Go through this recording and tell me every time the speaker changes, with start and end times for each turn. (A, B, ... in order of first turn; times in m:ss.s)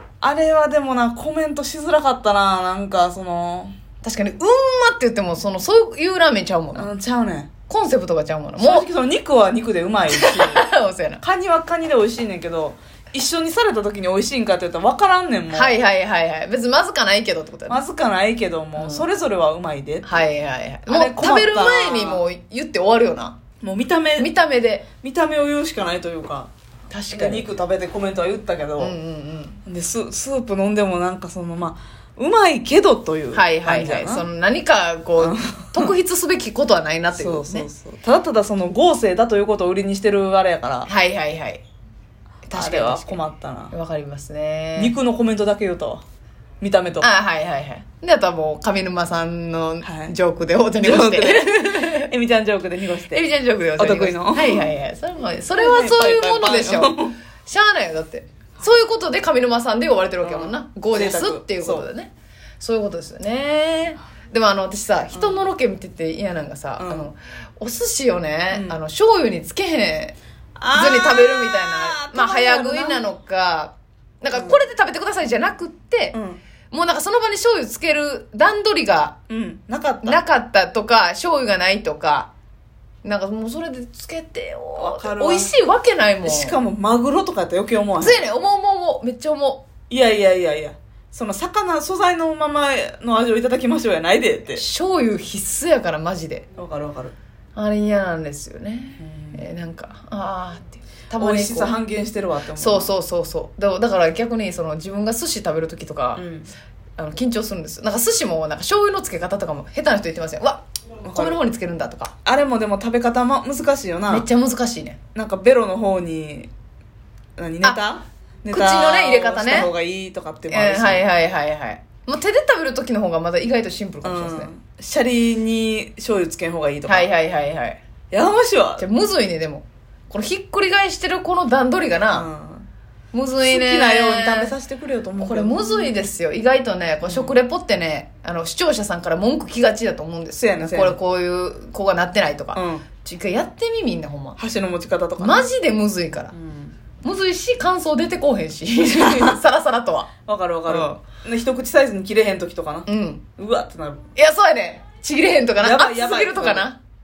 0:00.2-0:03.7 A
0:04.0-0:06.9 B
0:06.8-0:07.5 A
0:07.7-0:08.9 B
0:08.6-0:10.6 A
0:10.1-0:11.2 B
0:11.2-0:15.8 A
0:15.5-0:17.8 B
0:17.7-0:20.1 A
0:18.8-0:19.0 B
0:20.0-0:23.4 B
0:20.9-0:22.2 A
0:23.6-0:24.3 A
0:24.2-0:24.9 B
0:25.0-0:26.5 A
0:26.9-0:27.5 B
0:27.1-0:29.0 A
0:28.8-0:29.6 B
0:29.7-0:34.3 A
0:33.3-0:37.7 B
0:35.2-0:35.9 A
0:37.1-0:40.9 A
0:40.9-0:41.6 B
0:42.5-0:45.0 B
0:42.5-0:43.7 A
0:44.8-0:46.0 A
0:46.6-0:47.1 A
0:47.0-0:52.1 B
0:49.8-0:50.1 A
0:50.8-0:53.2 A
0:53.0-1:10.2 B
0:53.8-0:54.7 A
0:55.5-0:57.2 A
1:00.2-1:01.9 A
1:05.1-1:05.5 A
1:06.8-1:07.1 A
1:08.5-1:08.8 A
1:10.6-1:13.1 A
1:10.7-1:16.2 B
1:14.3-1:14.6 A
1:16.1-1:16.4 A
1:16.7-1:19.2 B
1:19.3-1:20.2 A
1:20.0-1:22.3 B
1:23.0-1:26.6 B
1:24.8-1:25.5 A
1:26.2-1:28.2 A
1:28.0-1:29.6 B
1:29.9-1:34.6 A
1:34.5-1:36.4 B
1:36.6-1:37.2 A
1:37.6-1:41.7 B
1:39.0-1:39.4 A
1:41.2-1:42.9 A
1:42.6-1:46.2 B
1:46.2-1:46.5 A
1:47.0-1:52.1 B
1:51.0-1:51.4 A
1:52.2-1:54.3 A
1:54.1-1:55.0 B
1:55.2-1:56.5 A
1:57.4-2:01.1 A
1:58.5-1:59.7 B
2:00.5-2:04.5 B
2:04.0-2:07.1 A
2:06.9-2:07.8 B
2:08.1-2:08.8 A
2:08.8-2:12.3 B
2:12.1-2:12.7 A
2:13.1-2:14.5 B
2:13.4-2:16.1 A
2:15.2-2:24.4 B
2:17.0-2:17.4 A
2:20.4-2:21.0 A
2:22.5-2:22.9 A
2:24.4-2:25.5 A
2:25.2-2:26.3 B
2:26.3-2:26.8 A
2:27.0-2:30.1 B
2:28.9-2:29.4 A
2:30.3-2:34.0 A
2:32.9-2:33.2 B
2:34.2-2:36.8 B
2:35.6-2:36.7 A